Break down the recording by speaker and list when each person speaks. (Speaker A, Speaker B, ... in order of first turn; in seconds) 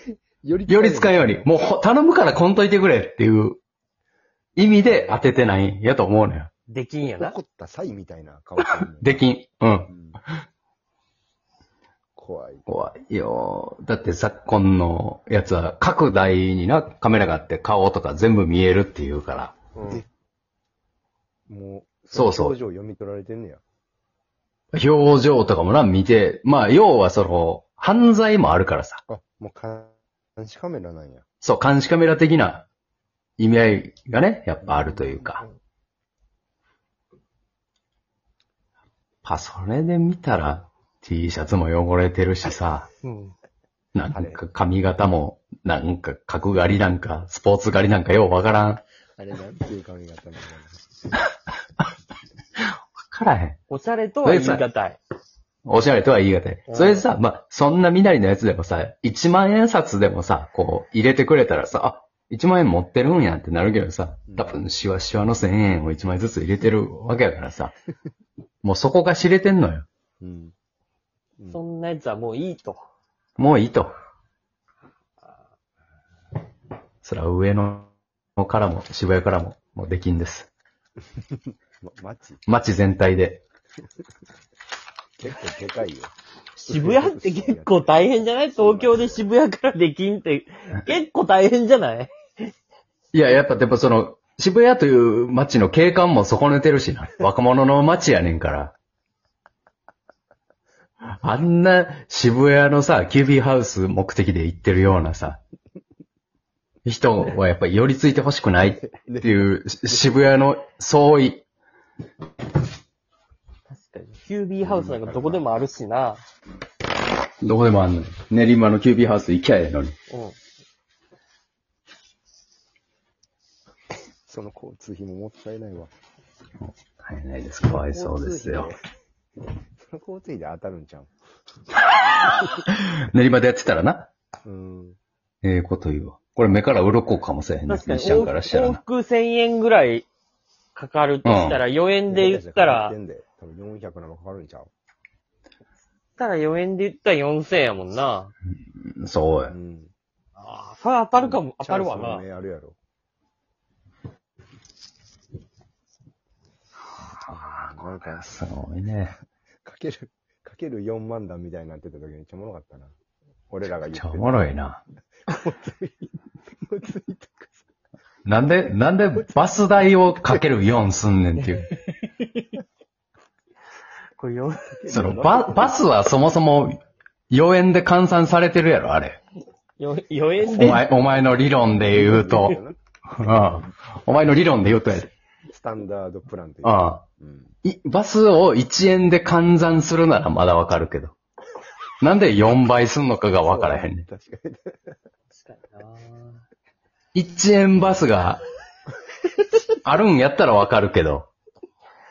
Speaker A: 0.4-1.5, 4.8-5.3, 7.1-9.3, 9.9-10.2, 12.2-12.7, 21.5-23.6, 29.1-31.2, 34.6-35.5, 44.1-44.4, 49.2-50.8, 64.3-64.6, 70.2-70.5, 81.8-82.4, 85.2-89.3, 108.8-110.2, 114.6-115.5, 124.2-125.9, 127.6-128.8, 129.8-131.1, 134.4-135.0, 142.1-144.7, 149.5-149.9, 151.2-152.8, 157.3-158.3, 159.6-162.9, 163.5-164.5, 165.3-166.1, 166.7-167.7, 174.8-175.9, 180.6-182.8, 183.3-183.7, 185.5-187.5, 193.4-194.9
Speaker B: 0.7-3.6, 4.6-6.5, 8.8-9.9, 12.7-19.6, 22.1-22.6, 24.7-29.0, 31.4-32.6, 33.4-35.4, 39.2-42.9, 43.9-48.8, 52.6-53.6, 54.2-54.6, 55.6-67.7, 68.6-69.9, 73.4-74.0, 77.0-80.5, 82.5-83.4, 93.1-98.7, 101.2-105.4, 106.8-111.4, 117.4-119.9, 126.6-128.8, 132.5-134.1, 135.4-138.8, 141.2-141.6, 148.8-149.5, 157.1-159.1, 163.9-164.8, 168.2-171.7, 174.9-176.8, 177.3-179.2, 180.4-185.1, 186.6-187.0, 187.6-191.1, 192.0-194.0, 197.1-198.4, 199.8-201.3
Speaker C: 6.7-7.3, 43.0-43.3, 53.7-55.0, 56.7-57.0, 71.5-72.8, 86.6-92.1, 113.7-116.2, 120.1-120.4, 137.7-140.1, 140.8-142.9, 146.2-148.3, 150.4-152.2, 174.2-174.8, 179.8-180.9, 195.4-196.4